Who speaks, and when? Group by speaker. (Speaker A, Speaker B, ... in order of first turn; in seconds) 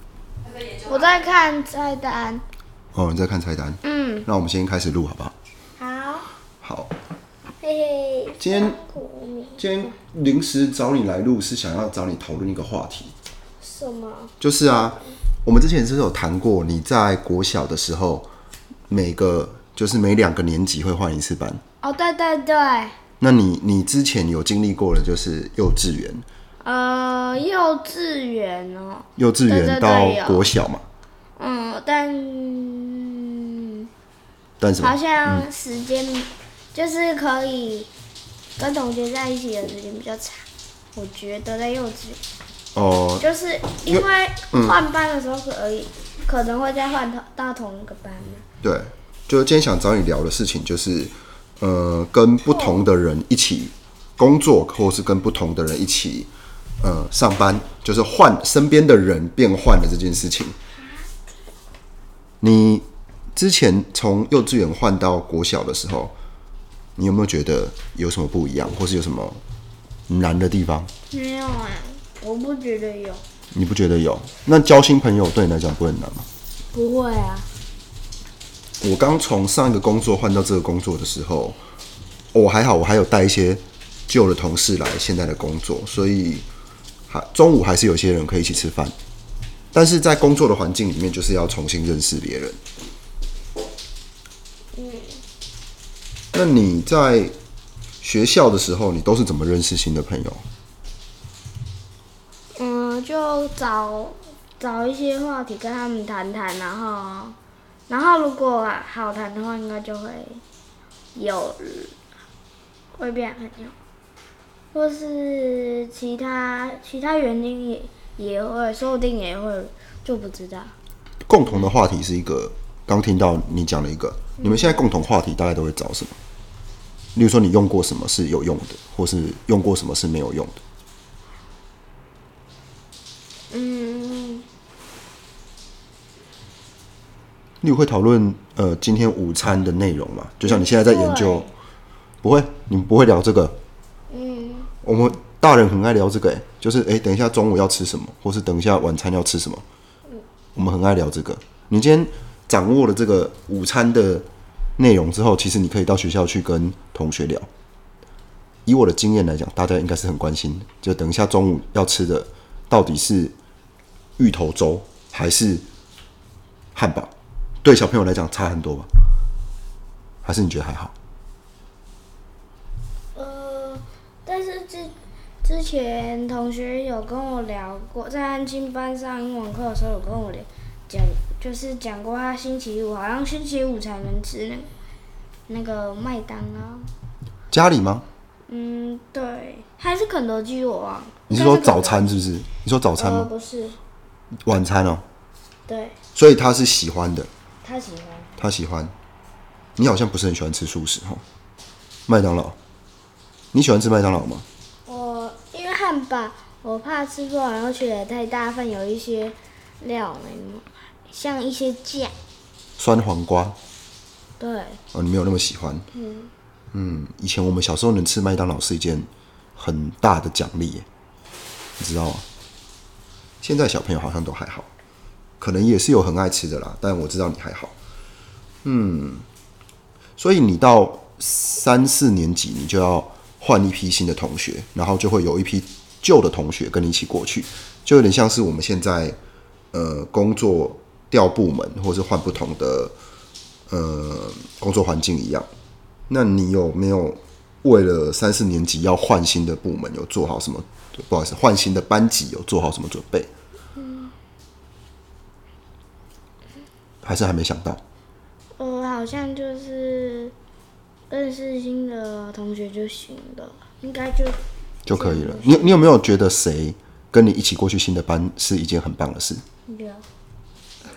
Speaker A: 0.8-2.4, 3.8-4.2, 5.8-6.3, 7.6-9.9, 13.6-14.3, 21.8-23.0, 26.6-30.5, 31.4-33.9, 34.8-37.9, 38.6-42.2, 43.2-48.4, 71.1-73.2, 76.7-77.5, 94.7-95.2, 102.5-107.3, 107.9-110.4, 111.1-112.0, 112.9-113.7, 114.7-120.7, 124.4-124.8, 133.5-134.4, 140.4-141.5, 144.1-144.7, 173.1-184.7, 185.5-186.9, 188.5-192.2, 193.0-193.8, 195.7-196.0, 197.6-198.3, 204.8-212.1, 214.4-214.8, 215.9-216.3, 253.8-254.1, 258.6-260.3, 261.1-264.4, 264.9-265.8, 269.7-270.0
Speaker B: 2.9-5.3, 6.6-6.9, 8.4-8.8, 9.6-13.1, 14.4-18.3, 18.9-21.6, 23.2-26.2, 29.1-30.8, 34.6-35.5, 42.7-43.2, 43.9-44.8, 48.6-56.3, 56.8-60.5, 62.4-66.1, 67.0-69.4, 70.1-70.9, 73.5-76.3, 78.8-81.6, 82.3-86.4, 87.1-88.9, 89.7-92.6, 96.3-97.3, 98.0-100.4, 121.2-126.1, 127.1-130.6, 137.6-141.5, 142.2-143.6, 144.8-149.6, 150.5-154.3, 154.8-157.5, 158.7-163.3, 164.2-165.6, 166.7-167.1, 167.6-168.9, 170.2-170.9, 187.5-188.0, 191.3-193.3, 194.4-195.0, 196.1-197.3, 198.4-198.9, 199.8-201.2, 202.1-202.6, 203.5-204.4, 212.8-213.6, 214.9-215.8, 216.7-220.8, 221.8-222.2, 223.4-224.7, 225.4-227.7, 228.6-229.2, 230.2-239.2, 239.7-242.9, 243.7-245.5, 246.1-253.3, 257.0-257.8, 264.9-269.4